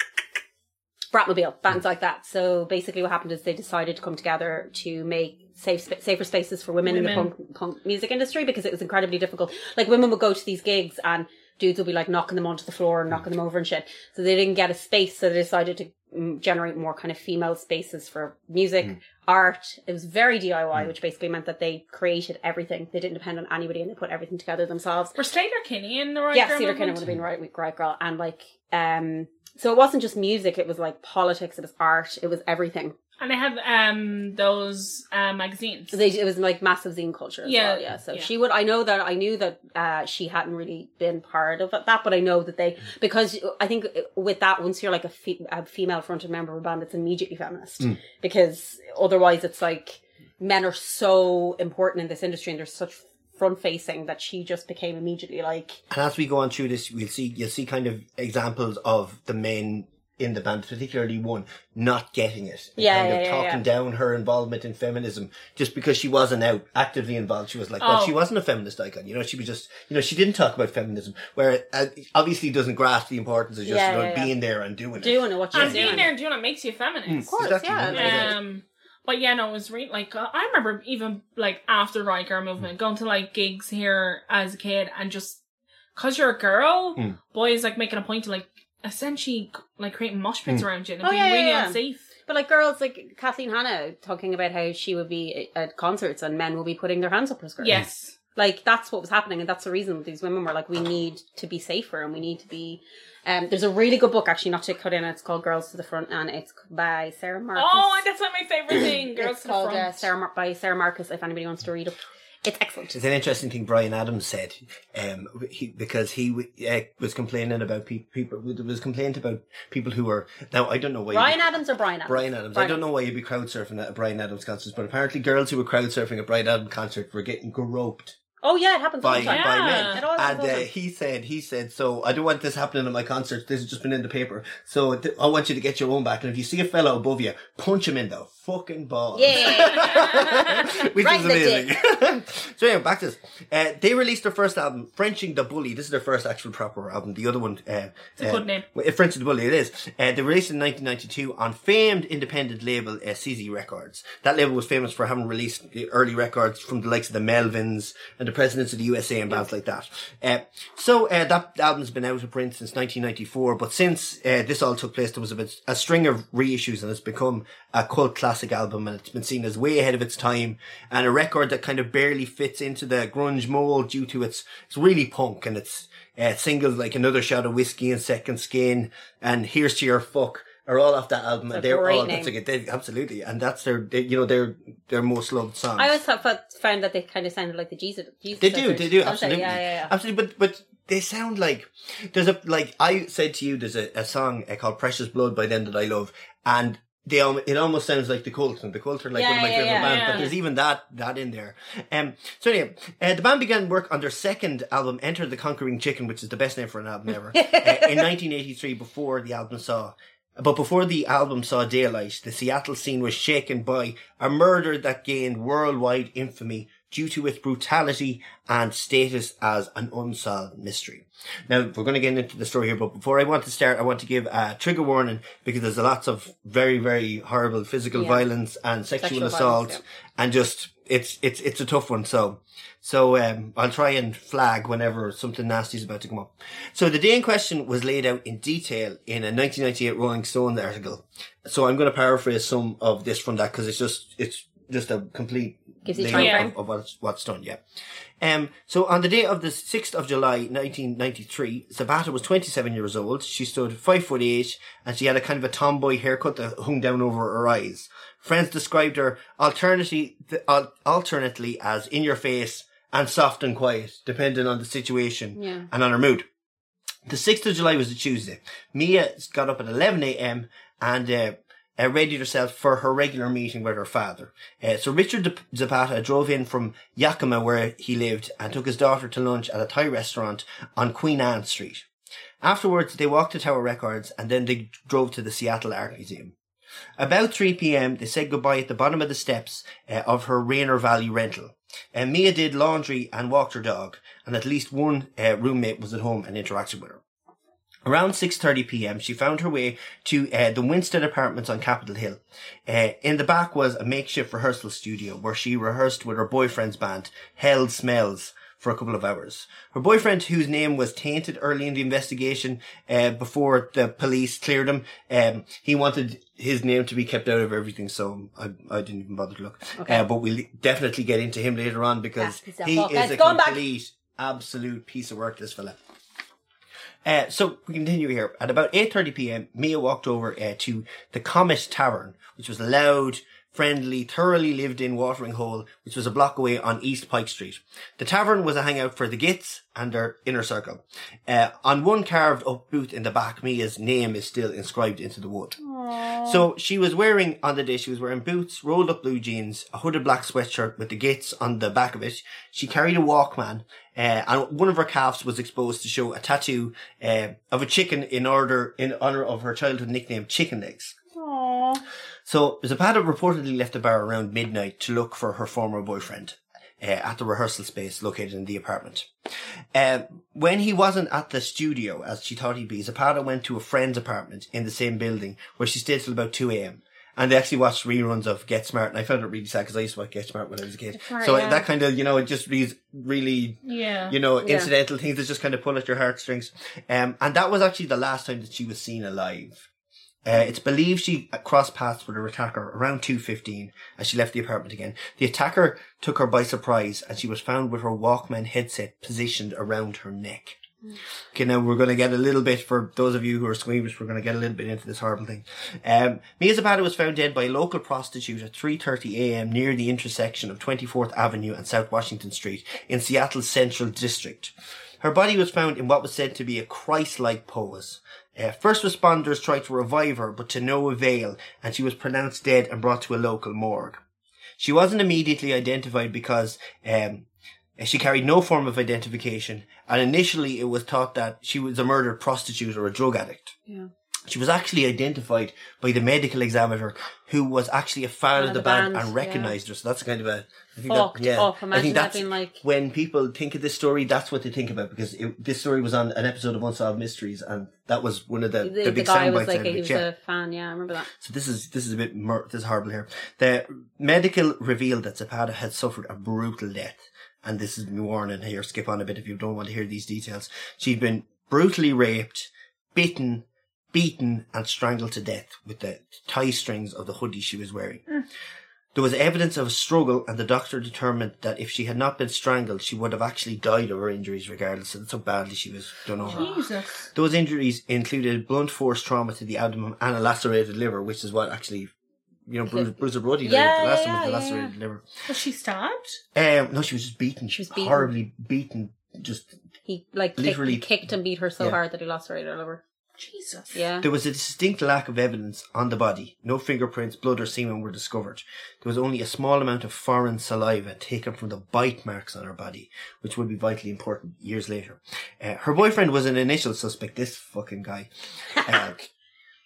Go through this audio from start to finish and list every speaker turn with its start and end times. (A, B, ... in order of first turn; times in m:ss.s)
0:01.1-0:25.1 A
0:06.8-0:07.3 B
0:25.1-0:27.1 B
0:26.3-0:32.9 A
0:33.2-0:35.9 B
0:35.9-0:55.8 A
0:37.4-0:38.3 B
0:55.9-1:16.1 C
1:02.8-1:03.6 A
1:07.8-1:08.2 B
1:13.6-1:14.3 A
1:15.0-1:16.1 A
1:15.5-1:17.3 B
1:17.1-1:18.3 C
1:17.3-1:18.3 A
1:17.9-1:25.4 B
1:25.9-1:32.0 B
1:31.0-1:37.8 A
1:37.6-1:38.2 B
1:38.3-1:48.0 A
1:47.6-1:50.1 B
1:48.8-1:53.0 A
1:52.9-2:08.2 C
2:01.1-2:02.8 A
2:08.4-2:10.6 A
2:09.0-3:06.0 C
2:09.1-2:10.0 B
2:19.1-2:21.7 A
2:28.2-2:28.6 B
3:01.5-3:02.3 A
3:05.8-3:09.9 A
3:08.4-4:07.6 C
3:19.1-3:20.3 A
3:19.7-3:20.3 B
3:27.3-3:28.1 A
3:47.9-3:48.2 A
3:49.0-3:49.8 A
4:05.8-4:06.5 A
4:06.1-4:06.5 B
4:08.2-4:26.2 C
4:25.4-4:25.7 A
4:27.1-4:41.8 C
4:42.4-4:46.3 C
4:47.0-4:57.0 C
4:57.8-5:25.8 C
5:22.2-5:23.6 A
5:27.0-5:45.5 C
5:45.6-5:46.4 A
5:46.2-6:01.0 C
6:01.2-6:01.8 A
6:02.2-6:09.1 C
6:09.7-6:29.6 C
6:21.0-6:21.6 B
6:21.2-6:21.4 A
6:23.6-6:24.2 B
6:24.4-6:24.7 A
6:30.2-6:40.6 C
6:41.3-7:04.0 C
7:04.6-7:13.5 C
7:14.3-7:30.0 C
7:18.4-7:19.6 A
7:20.9-7:22.6 A
7:28.6-7:31.1 A
7:31.2-7:48.0 C
7:48.9-7:56.5 C
7:56.2-7:57.0 B
7:56.2-7:56.6 A
7:57.1-8:01.9 C
8:02.5-8:05.1 C
8:03.4-8:04.7 A
8:05.3-8:06.2 B
8:06.3-8:09.5 C
8:07.5-8:08.1 A
8:09.8-8:12.8 A
8:10.4-8:10.8 C
8:13.2-8:13.8 B
8:13.7-8:14.0 A
8:14.0-8:28.1 C
8:28.6-8:29.1 C